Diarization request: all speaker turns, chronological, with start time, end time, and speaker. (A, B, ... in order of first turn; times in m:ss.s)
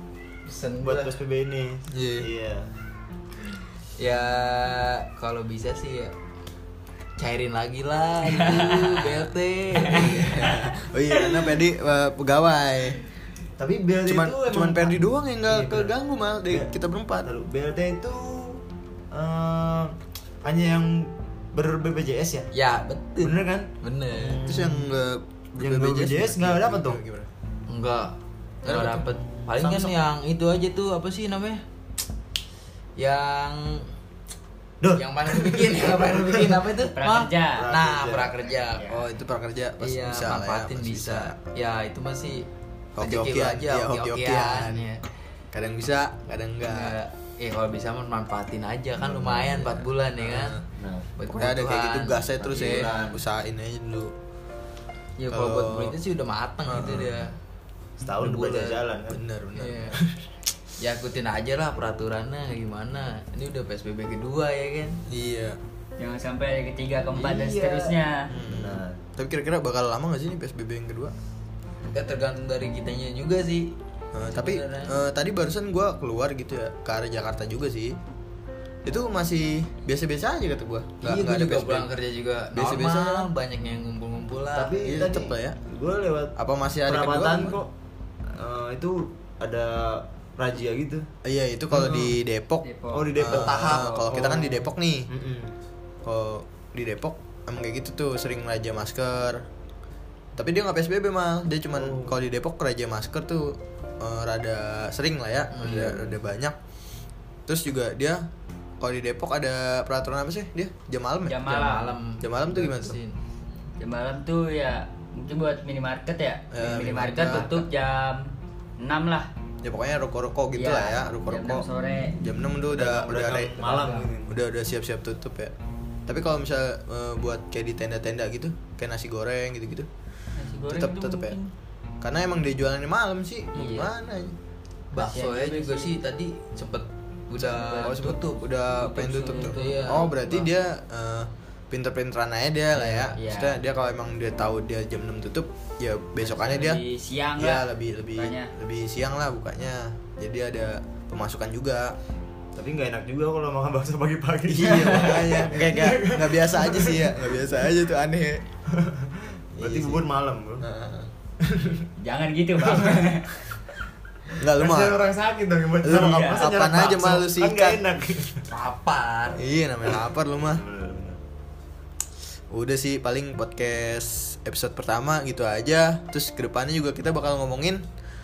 0:00.5-0:01.2 A
0:00.8-0:02.7 B
0:01.9-0:02.3 C
0:04.0-0:06.1 A
0:07.2-0:10.5 A
0:08.2-0:09.0 D
0:09.9-0:13.0 C
0:13.6-0:15.9 B
0:14.0-0:17.3 C
0:17.2-0:22.5 B
0:22.5-0:24.4 A
0:23.2-0:24.9 B
0:24.4-0:27.3 C
0:25.6-0:27.0 B
0:27.7-0:31.6 A
0:28.6-0:29.1 C
0:29.6-0:30.0 B
0:33.0-0:33.9 A
0:34.8-0:36.6 B
0:34.9-0:39.0 A
0:36.9-0:37.7 D
0:37.5-0:38.9 B
0:38.8-0:41.4 C
0:39.8-0:42.5 A
0:43.0-0:44.8 C
0:43.0-0:45.0 A
0:45.5-0:46.9 C
0:46.6-0:50.6 A
0:49.0-0:50.6 C
0:50.8-0:51.1 B
0:51.2-0:52.9 A
0:51.3-0:54.1 C
0:52.5-0:53.2 B
0:55.2-0:57.3 A
0:55.3-0:56.0 C
0:56.6-0:57.2 C
0:58.0-0:59.2 B
0:58.2-0:58.8 A
0:59.1-1:00.0 C
0:59.6-1:00.0 A
1:00.8-1:05.0 A
1:05.1-1:05.6 C
1:06.0-1:08.3 D
1:07.1-1:09.0 B
1:08.3-1:11.1 C
1:11.9-1:13.7 A
1:14.1-1:18.0 C
1:14.3-1:14.9 A
1:18.8-1:21.9 C
1:21.0-1:24.9 A
1:22.5-1:23.3 C
1:24.5-1:26.3 B
1:24.8-1:25.6 C
1:26.4-1:27.6 C
1:26.8-1:27.7 B
1:28.3-1:31.1 B
1:31.2-1:35.1 C
1:31.7-1:32.1 B
1:32.6-1:34.3 D
1:32.9-1:35.5 B
1:33.4-1:33.9 A
1:36.0-1:39.4 C
1:40.4-1:46.6 C
1:41.8-1:42.2 B
1:45.5-1:46.0 A
1:45.6-1:46.2 B
1:47.5-1:48.3 C
1:48.8-1:51.5 C
1:51.2-1:51.9 D
1:51.5-1:53.2 A
1:52.2-1:53.0 C
1:53.8-1:59.3 D
1:56.5-1:57.5 C
1:57.1-1:57.6 A
1:59.6-2:01.6 C
2:00.5-2:02.2 D
2:02.2-2:03.6 C
2:02.7-2:04.3 B
2:03.5-2:04.1 A
2:04.3-2:05.5 C
2:06.1-2:09.9 C
2:10.4-2:11.5 D
2:10.7-2:11.4 C
2:12.0-2:14.3 C
2:13.5-2:13.9 D
2:14.9-2:18.3 A
2:14.9-2:16.0 D
2:17.4-2:18.0 D
2:17.8-2:26.8 C
2:18.8-2:20.1 D
2:19.3-2:20.4 A
2:22.7-2:23.1 A
2:23.1-2:23.6 D
2:26.2-2:27.6 D
2:27.4-2:31.9 C
2:28.2-2:28.5 D
2:32.5-2:37.2 B
2:34.5-2:38.4 C
2:34.6-2:35.4 D
2:38.7-2:40.6 B
2:39.6-2:40.0 C
2:40.6-2:41.1 C
2:41.4-2:41.9 B
2:42.0-2:43.3 D
2:42.6-2:43.2 B
2:44.4-2:45.0 C
2:44.4-2:48.4 B
2:45.8-2:47.8 C
2:46.1-2:46.4 D
2:48.5-2:49.4 A
2:49.4-2:50.6 C
2:50.4-2:51.2 B
2:52.5-2:57.8 C